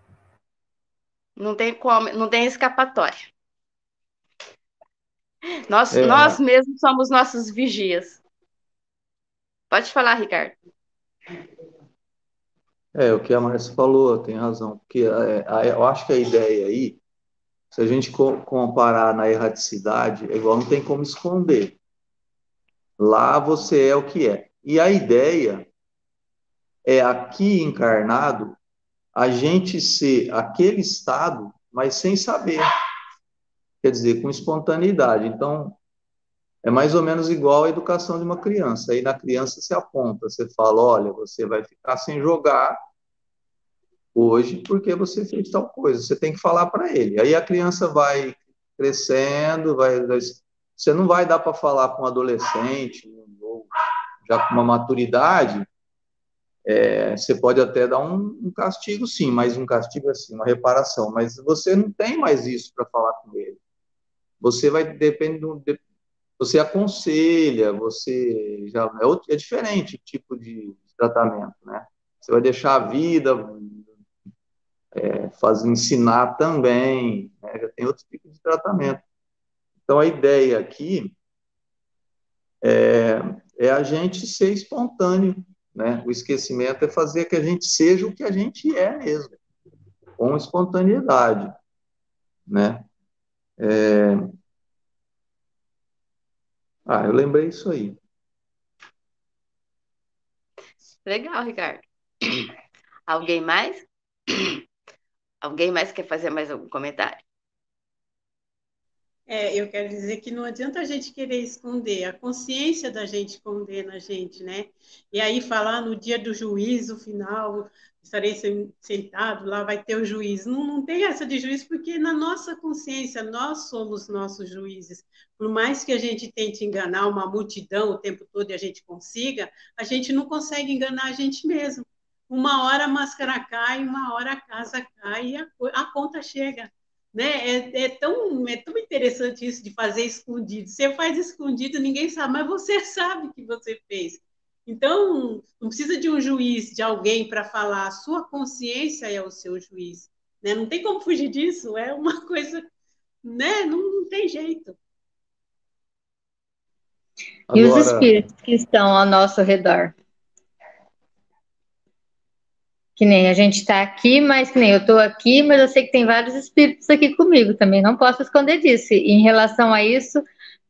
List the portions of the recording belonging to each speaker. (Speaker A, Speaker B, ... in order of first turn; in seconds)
Speaker A: 1.4-3.2, 5.7-8.2, 9.7-10.6, 101.0-102.5, 103.1-103.9, 105.4-107.2
Speaker B: 5.9-6.4, 12.9-17.0, 17.7-21.8, 23.0-25.7, 26.9-28.6, 29.1-32.7, 33.8-35.8, 36.6-42.8, 44.1-53.7, 54.2-55.7, 56.7-63.6, 64.4-65.8, 66.4-73.9, 75.0-79.0, 79.9-81.1, 82.6-89.4, 90.2-91.5, 92.5-92.8, 93.6-94.3, 96.9-98.0, 157.5-158.1
Speaker C: 109.3-152.7, 153.2-154.8
Speaker D: 157.5-159.9, 163.0-170.2